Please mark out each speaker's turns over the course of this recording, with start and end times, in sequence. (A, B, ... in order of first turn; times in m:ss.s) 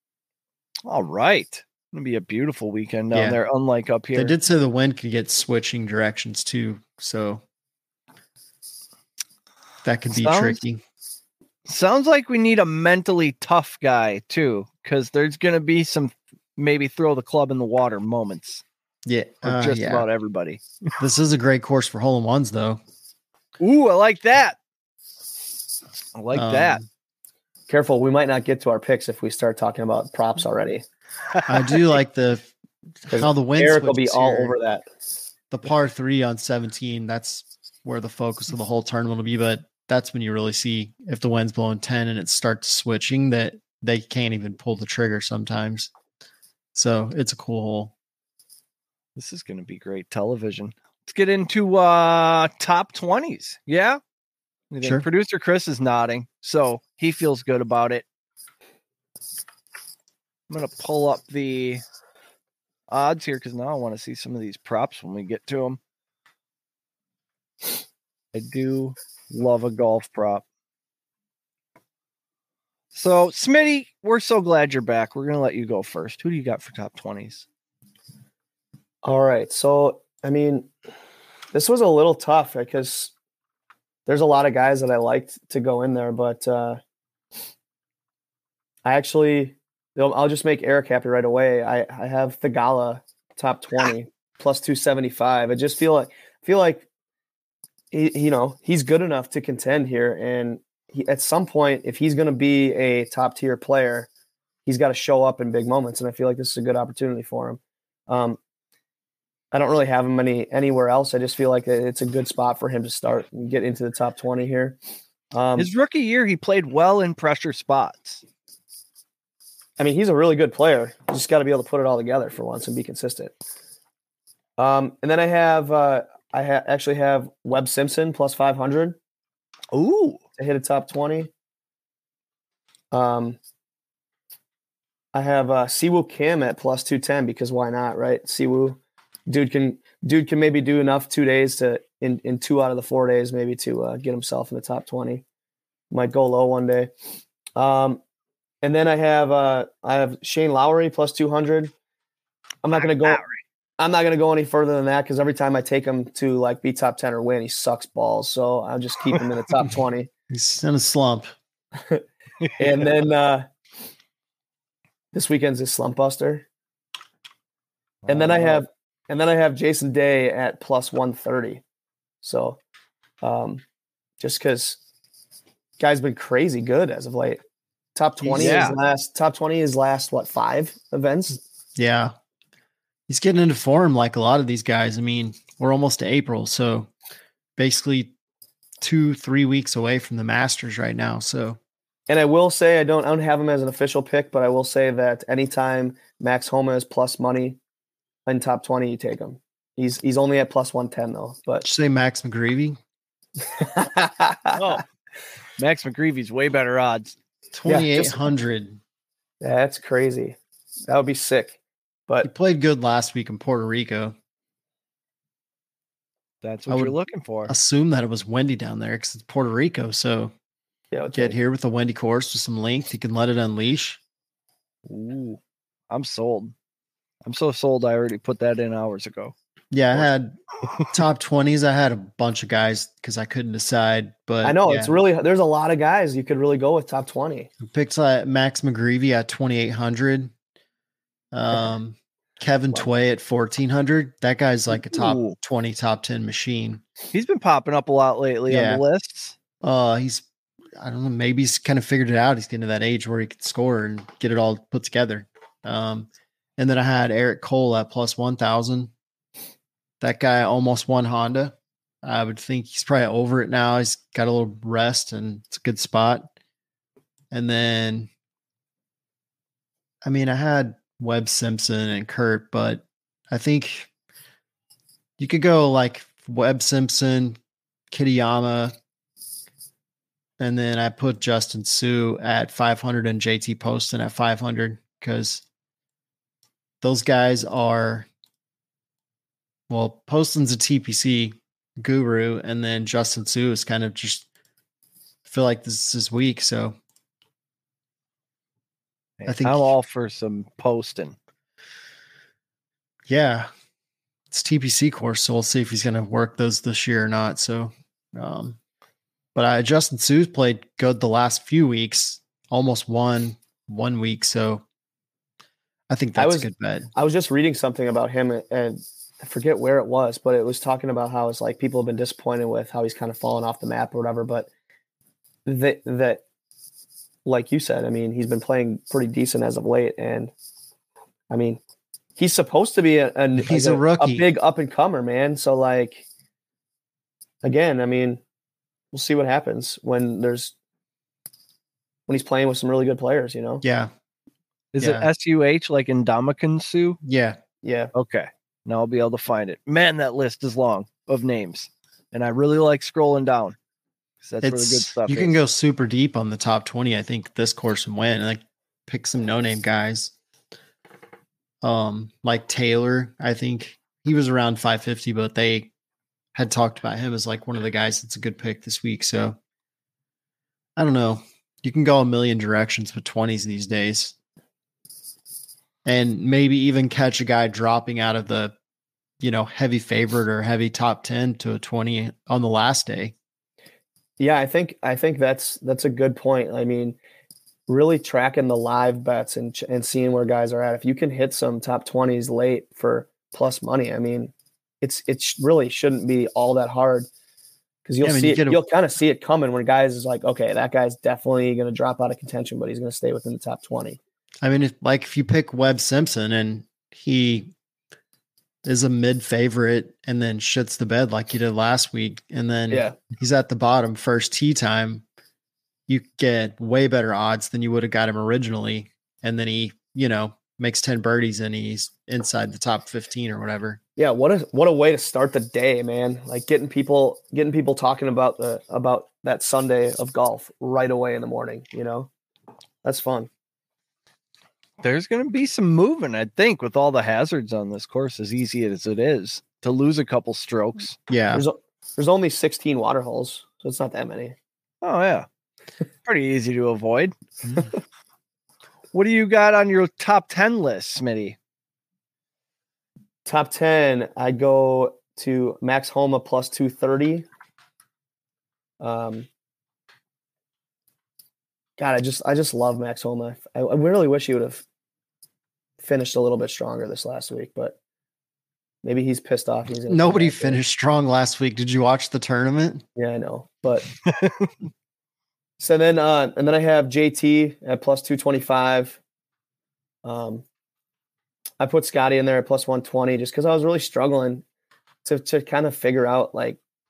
0:00.9-0:04.3 A
0:03.1-0:03.4 B
0:04.1-0:07.4 B
0:09.8-0:10.8 B
0:10.1-0:10.6 A
0:11.6-0:18.6 A
0:19.0-0:20.1 B
0:19.4-0:20.6 A
0:21.0-0:22.8 B
0:23.6-0:24.6 A
0:26.1-0:26.8 A
0:26.3-0:26.8 B
0:27.7-0:30.8 C
0:31.5-0:32.5 B
0:33.0-0:34.6 B
0:33.1-0:34.8 C
0:35.5-0:45.9 B
0:46.7-0:47.9 B
0:49.2-0:54.0 A
0:54.7-0:58.0 A
0:54.8-0:55.0 B
1:00.5-1:01.8 A
1:02.9-1:05.8 A
1:08.3-1:10.4 A
1:12.9-1:17.4 A
1:19.0-1:20.7 C
1:21.5-1:23.1 C
1:24.1-1:26.8 C
1:28.8-1:36.8 C
1:37.9-1:44.1 C
1:44.6-1:48.4 C
1:49.5-1:54.8 C
1:55.3-1:55.7 C
1:55.6-1:58.2 A
1:59.8-2:03.3 C
2:04.6-2:09.0 C
2:09.7-2:10.2 A
2:10.4-2:11.3 C
2:12.9-2:13.4 C
2:15.1-2:25.2 C
2:25.9-2:26.9 C
2:27.6-2:28.0 C
2:28.6-2:31.7 C
2:32.6-2:33.2 C
2:32.7-2:33.4 A
2:33.8-2:40.1 C
2:40.3-2:41.3 B
2:41.7-2:42.0 C
2:42.4-2:42.8 A
2:42.6-2:43.5 C
2:45.1-2:46.4 C
2:48.0-2:48.6 A
2:48.1-2:51.6 C
2:52.2-2:52.6 C
2:53.2-2:53.6 C
2:54.2-2:54.8 C
2:55.8-2:57.4 C
2:57.9-3:01.4 C
2:58.2-2:58.6 B
2:58.3-2:58.8 A
3:01.8-3:02.1 B
3:03.1-3:06.9 B
3:07.6-3:08.1 B
3:08.8-3:11.6 B
3:12.1-3:17.6 C
3:18.2-3:21.6 C
3:21.6-3:22.8 B
3:23.5-3:24.8 C
3:24.5-3:24.8 A
3:25.6-3:27.2 A
3:27.5-3:28.8 B
3:27.7-3:28.3 C
3:29.4-3:32.3 C
3:32.2-3:34.1 B
3:36.4-3:37.5 A
3:36.7-3:40.3 B
3:40.9-3:41.3 C
3:41.1-3:44.0 B
3:44.9-3:45.4 C
3:45.9-3:46.5 A
3:47.2-3:49.3 A
3:49.7-3:50.4 B
3:50.9-3:55.0 B
3:54.4-3:57.5 C
3:57.6-4:00.3 B
4:01.3-4:06.8 B
4:07.1-4:09.3 A
4:08.5-4:08.8 B
4:09.6-4:10.2 B
4:10.8-4:18.9 B
4:20.0-4:26.3 B
4:27.3-4:28.1 B
4:30.0-4:33.9 B
4:35.2-4:37.4 B
4:37.9-4:38.7 B
4:40.4-4:45.4 B
4:46.8-4:48.1 B
4:49.7-4:54.3 B
4:55.2-4:56.8 B
4:59.2-5:01.2 A
4:59.2-4:59.7 B
5:03.1-5:03.5 B
5:04.3-5:08.6 B
5:09.3-5:14.6 B
5:15.9-5:16.9 B
5:16.2-5:24.5 C
5:25.4-5:26.2 C
5:27.2-5:30.3 C
5:31.3-5:31.6 C
5:32.2-5:36.0 C
5:33.4-5:34.3 B
5:37.4-5:38.2 C
5:38.9-5:40.5 C
5:42.1-5:43.6 C
5:43.6-5:43.9 B
5:44.7-5:47.0 A
5:44.8-5:45.1 B
5:47.0-5:47.4 B
5:47.6-5:47.9 C
5:47.9-5:53.6 A
5:54.2-5:55.4 A
5:54.4-6:00.1 B
6:01.6-6:05.7 B
6:06.3-6:09.4 B
6:10.8-6:14.1 B
6:15.8-6:18.5 B
6:19.2-6:23.1 B
6:24.2-6:27.0 C
6:27.7-6:37.1 C
6:37.8-6:44.0 C
6:38.0-6:38.6 B
6:44.4-6:47.5 B
6:48.6-6:55.0 B
6:52.7-6:53.0 C
6:55.9-7:03.8 B
7:04.0-7:12.1 C
7:12.8-7:13.3 C
7:14.8-7:21.0 A
7:21.1-7:21.4 B
7:21.3-7:24.4 C
7:24.8-7:25.2 A
7:26.0-7:27.1 A
7:28.9-7:31.4 A
7:33.2-7:37.2 C
7:38.8-7:39.3 C
7:41.8-7:44.6 C
7:45.8-7:47.8 C
7:48.8-7:50.6 C
7:49.9-7:52.8 B
7:53.0-7:53.9 C
7:54.0-7:54.5 A
7:55.6-7:59.0 C
8:00.0-8:00.4 C
8:01.6-8:04.4 C
8:05.0-8:06.6 C